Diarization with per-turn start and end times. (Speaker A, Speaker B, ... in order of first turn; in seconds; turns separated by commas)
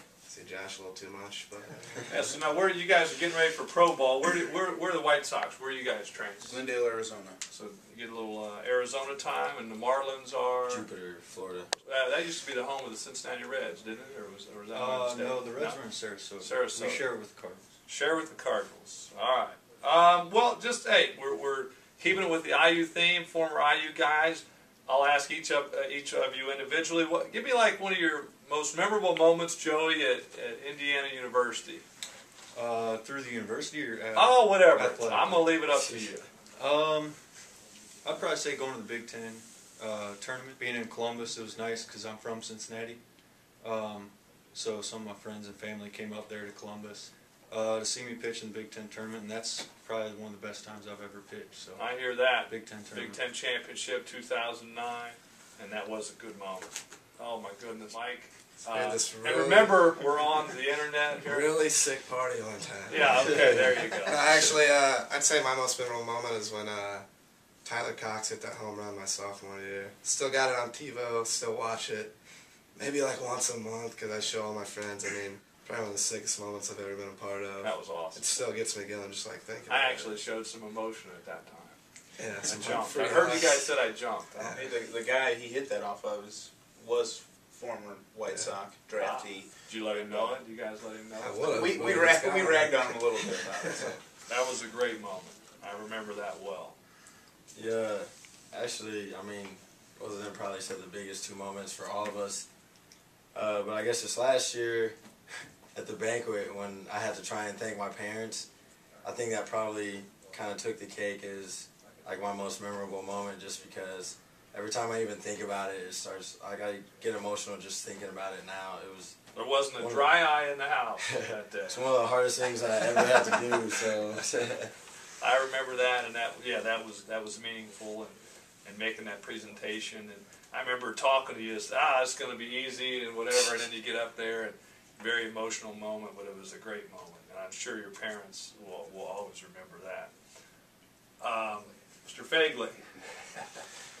Speaker A: 0.2-2.1, Speaker B: 2.1-6.6, Speaker C: 6.4-7.4, Speaker B: 7.5-10.8, Speaker D: 10.7-11.7, Speaker B: 11.8-15.8, Speaker E: 14.7-17.6, Speaker B: 16.4-17.0, Speaker B: 17.9-31.8, Speaker E: 32.5-35.8, Speaker B: 34.1-36.3, Speaker E: 36.5-37.2, Speaker E: 38.0-43.0, Speaker E: 43.6-51.9, Speaker B: 51.8-61.5, Speaker E: 52.4-53.2, Speaker A: 58.7-60.0, Speaker A: 61.2-67.0, Speaker B: 62.9-64.2, Speaker A: 67.6-72.1, Speaker A: 72.7-80.2, Speaker B: 77.6-78.3, Speaker B: 79.7-81.7, Speaker A: 82.2-83.7, Speaker B: 82.4-84.6, Speaker C: 84.5-90.4, Speaker B: 89.0-91.7, Speaker A: 91.2-93.0, Speaker C: 91.5-94.0, Speaker B: 94.2-96.7, Speaker D: 97.5-102.5, Speaker D: 103.3-105.0, Speaker D: 105.7-108.5, Speaker D: 109.0-119.2, Speaker B: 119.3-121.8, Speaker D: 119.8-120.2, Speaker D: 121.0-124.7, Speaker B: 125.2-140.1, Speaker B: 141.2-143.4